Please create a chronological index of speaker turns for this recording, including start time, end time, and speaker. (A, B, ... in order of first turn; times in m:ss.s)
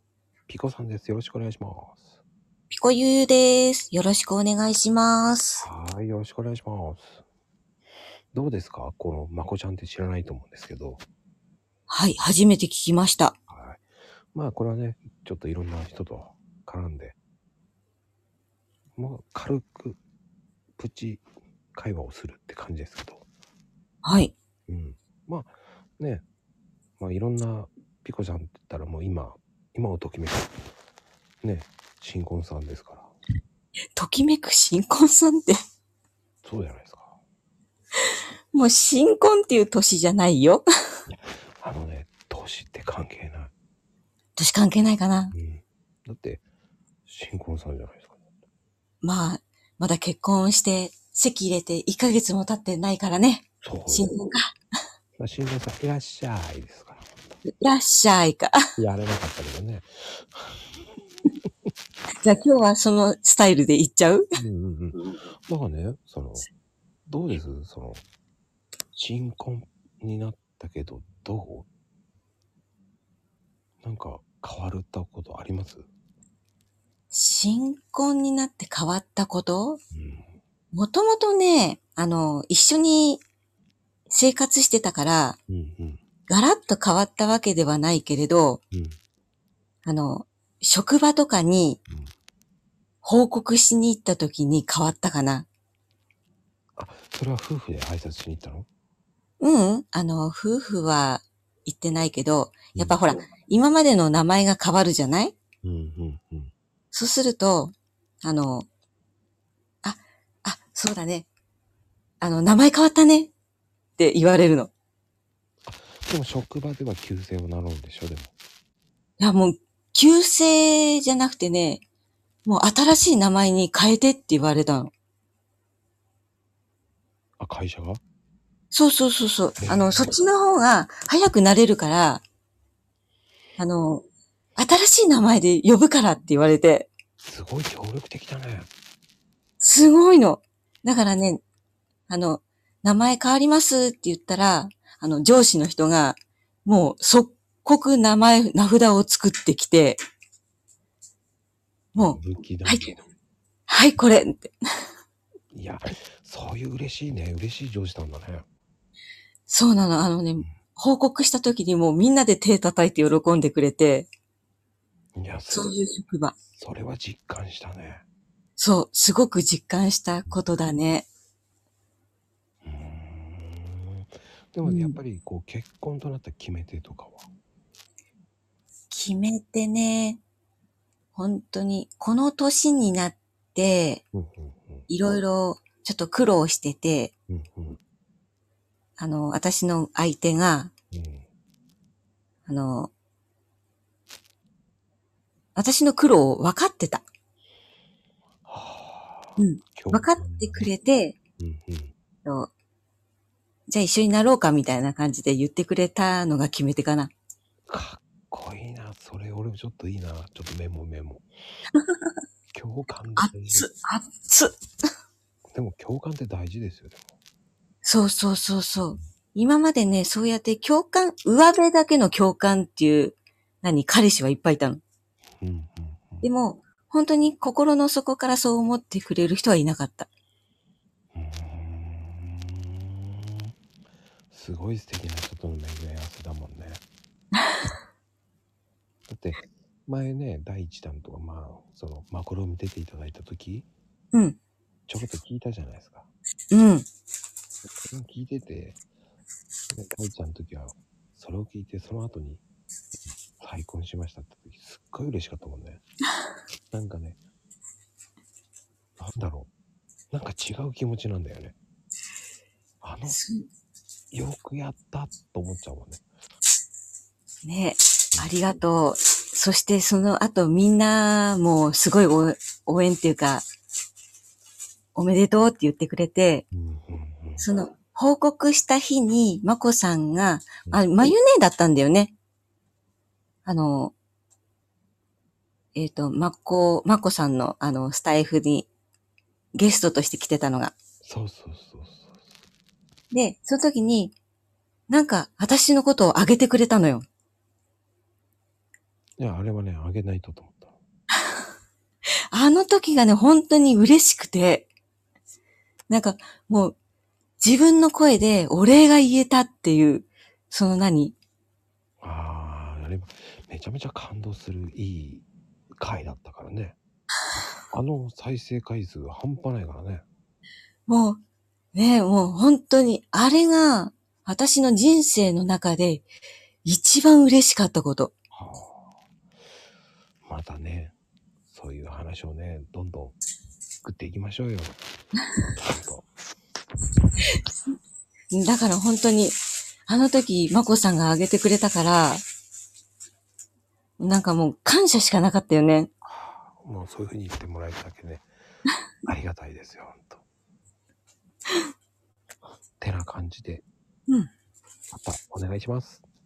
0:00.5-0:02.2 A
0:02.7-0:05.7 B
0:05.6-0:07.2 A
0:08.3-0:11.0 A
0:11.9-0:13.3 B
0:13.5-0:17.2 A
0:19.0-0:20.0 A
0:20.8-0:23.2 A
0:24.0-0:24.3 B
0:24.7-0:26.2 A
0:27.0-0:30.5 A
0:31.4-0:33.1 A
0:33.9-0:35.6 B
0:36.4-0:37.2 A
0:38.5-0:40.6 B
0:41.1-0:43.5 A
0:44.4-0:45.3 B
0:45.3-0:46.4 A
0:47.0-0:48.2 A
0:49.0-0:54.5 B
0:53.6-0:54.1 A
0:55.2-0:57.1 A
0:57.4-0:58.6 B
0:58.8-1:00.6 A
1:02.2-1:04.2 B
1:04.3-1:06.5 A
1:07.0-1:08.0 A
1:08.9-1:11.7 A
1:13.8-1:15.9 A
1:17.1-1:19.8 B
1:19.9-1:20.4 A
1:20.7-1:23.2 B
1:24.1-1:25.4 B
1:25.5-1:26.0 A
1:26.3-1:28.6 B
1:28.7-1:29.0 A
1:29.8-1:31.8 B
1:33.0-1:35.4 B
1:36.8-1:38.7 A
1:39.4-1:45.3 B
1:42.7-1:43.0 A
1:45.6-1:46.5 A
1:46.9-1:48.7 B
1:49.8-1:51.3 B
1:52.2-1:53.3 B
1:54.0-1:54.7 B
1:55.6-1:58.3 A
1:59.2-2:01.8 B
2:02.4-2:04.9 B
2:07.4-2:08.0 A
2:08.7-2:12.2 B
2:09.6-2:10.1 A
2:13.6-2:14.0 B
2:14.6-2:16.9 B
2:17.2-2:18.7 A
2:19.6-2:21.4 B
2:22.1-2:30.0 B
2:31.9-2:32.9 B
2:32.0-2:33.0 A
2:33.7-2:34.5 B
2:35.5-2:38.4 A
2:39.5-2:44.1 B
2:45.2-2:45.7 A
2:45.5-2:46.3 B
2:46.5-2:48.0 A
2:48.6-2:51.1 B
2:52.6-2:57.3 A
2:54.6-2:55.0 B
2:58.9-3:00.2 B
3:01.1-3:04.0 B
3:04.1-3:04.9 A
3:04.9-3:07.1 B
3:07.3-3:07.8 A
3:09.0-3:10.7 B
3:10.9-3:11.2 A
3:12.4-3:12.9 B
3:15.5-3:17.0 B
3:18.4-3:20.7 A
3:19.4-3:21.2 B
3:21.4-3:21.9 A
3:22.2-3:22.5 B
3:23.7-3:27.1 B
3:27.7-3:31.3 A
3:31.8-3:32.0 B
3:32.5-3:33.7 A
3:33.1-3:34.6 B
3:35.5-3:37.0 A
3:37.8-3:44.8 B
3:45.4-3:46.3 A
3:46.2-3:50.1 B
3:51.1-3:53.5 A
3:54.3-3:56.8 A
3:59.1-4:03.7 A
4:04.9-4:06.1 A
4:06.5-4:06.9 B
4:07.8-4:08.8 A
4:09.7-4:12.4 A
4:13.4-4:15.8 A
4:16.7-4:17.2 A
4:19.0-4:19.5 A
4:20.1-4:21.5 A
4:22.8-4:23.2 A
4:23.0-4:23.5 B
4:24.1-4:26.0 A
4:27.4-4:33.4 B
4:34.9-4:36.4 B
4:36.5-4:37.4 A
4:37.4-4:42.1 B
4:43.4-4:43.9 B
4:45.7-4:48.7 B
4:49.5-4:50.7 B
4:51.0-4:52.3 A
4:53.1-4:54.1 B
4:54.9-4:57.0 B
4:59.2-5:00.8 A
5:02.3-5:04.7 B
5:05.9-5:06.7 B
5:07.4-5:11.1 B
5:12.0-5:15.2 A
5:15.8-5:16.8 A
5:17.7-5:20.0 A
5:20.9-5:21.2 B
5:21.7-5:26.0 B
5:26.6-5:28.1 B
5:28.3-5:28.8 A
5:30.2-5:30.9 A
5:31.5-5:33.2 A
5:33.8-5:34.8 A
5:35.6-5:36.1 A
5:38.3-5:42.2 B
5:44.0-5:45.9 B
5:46.0-5:48.3 A
5:49.0-5:50.2 A
5:52.8-5:53.6 A
5:54.9-5:56.0 A